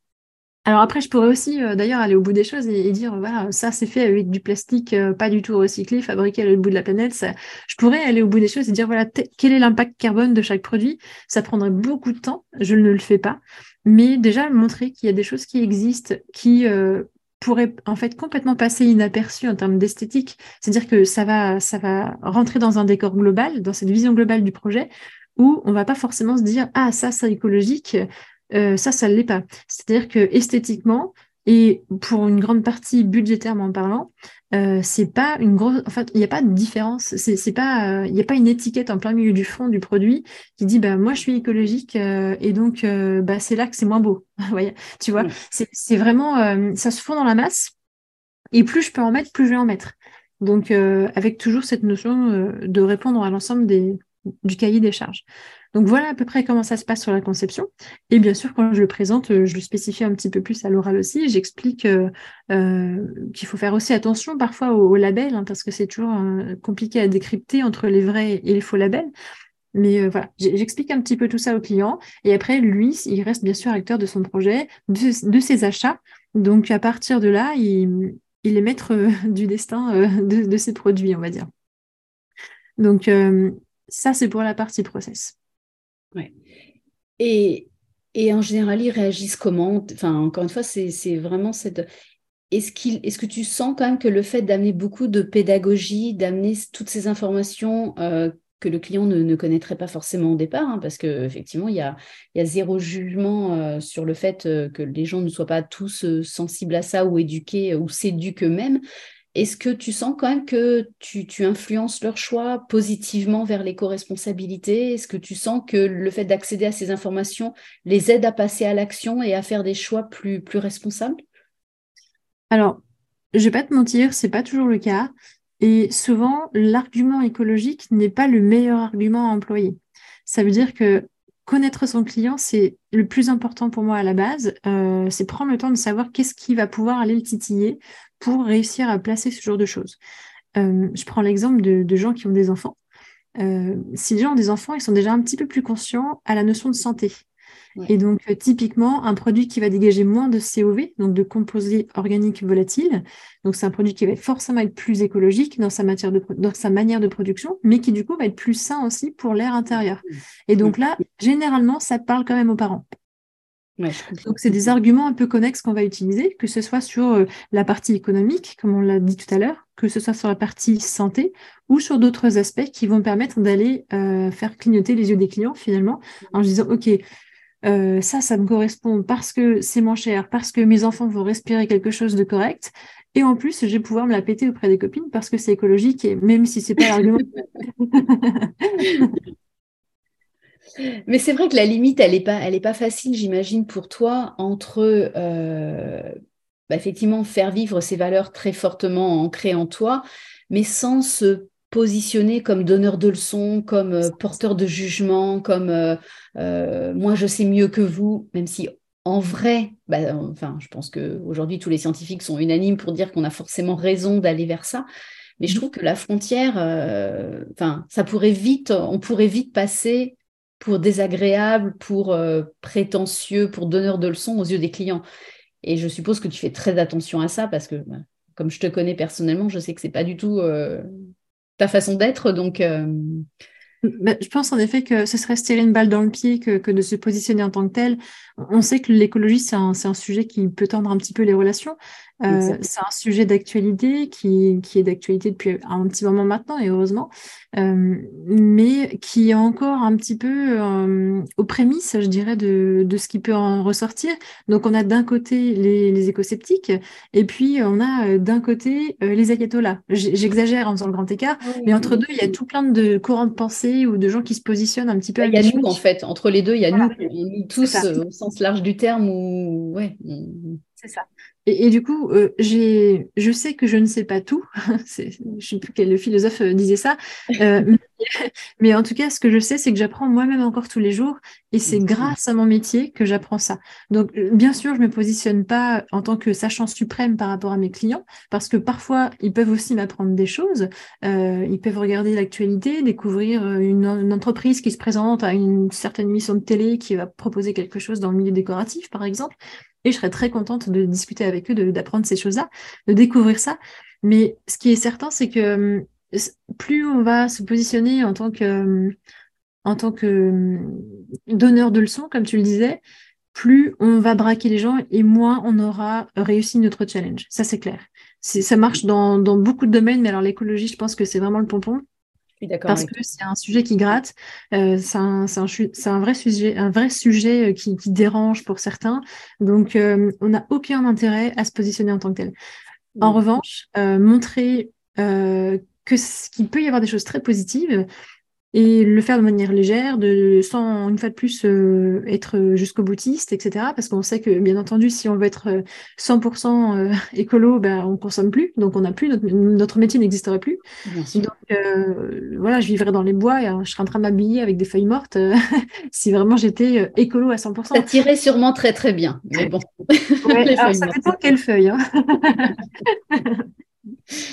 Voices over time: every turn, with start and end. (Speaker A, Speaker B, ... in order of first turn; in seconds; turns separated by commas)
Speaker A: 0.7-47.7, Speaker A: 48.5-69.1, Speaker A: 69.7-81.5, Speaker A: 82.8-85.3, Speaker B: 87.2-91.8, Speaker B: 92.5-108.8, Speaker B: 109.3-121.2, Speaker A: 122.5-122.8, Speaker A: 123.3-140.0, Speaker A: 140.6-142.8, Speaker A: 143.4-147.2, Speaker A: 147.9-162.8, Speaker B: 163.8-164.3, Speaker A: 164.2-177.0, Speaker A: 177.6-187.3, Speaker A: 187.8-189.1, Speaker B: 188.8-189.1, Speaker B: 190.8-196.1, Speaker B: 196.7-214.8, Speaker B: 215.4-225.0, Speaker B: 225.6-231.1, Speaker B: 231.6-233.2, Speaker A: 233.8-265.8, Speaker B: 242.3-242.6, Speaker B: 261.4-262.0, Speaker B: 265.2-270.6, Speaker A: 267.6-267.9, Speaker A: 270.8-308.9, Speaker B: 281.7-282.1, Speaker A: 309.6-312.8, Speaker A: 313.3-321.8, Speaker B: 322.4-322.9, Speaker A: 322.7-332.3, Speaker A: 333.0-337.8, Speaker A: 338.5-350.6, Speaker B: 350.9-351.1, Speaker A: 351.1-357.9, Speaker B: 357.7-361.0, Speaker A: 360.2-363.4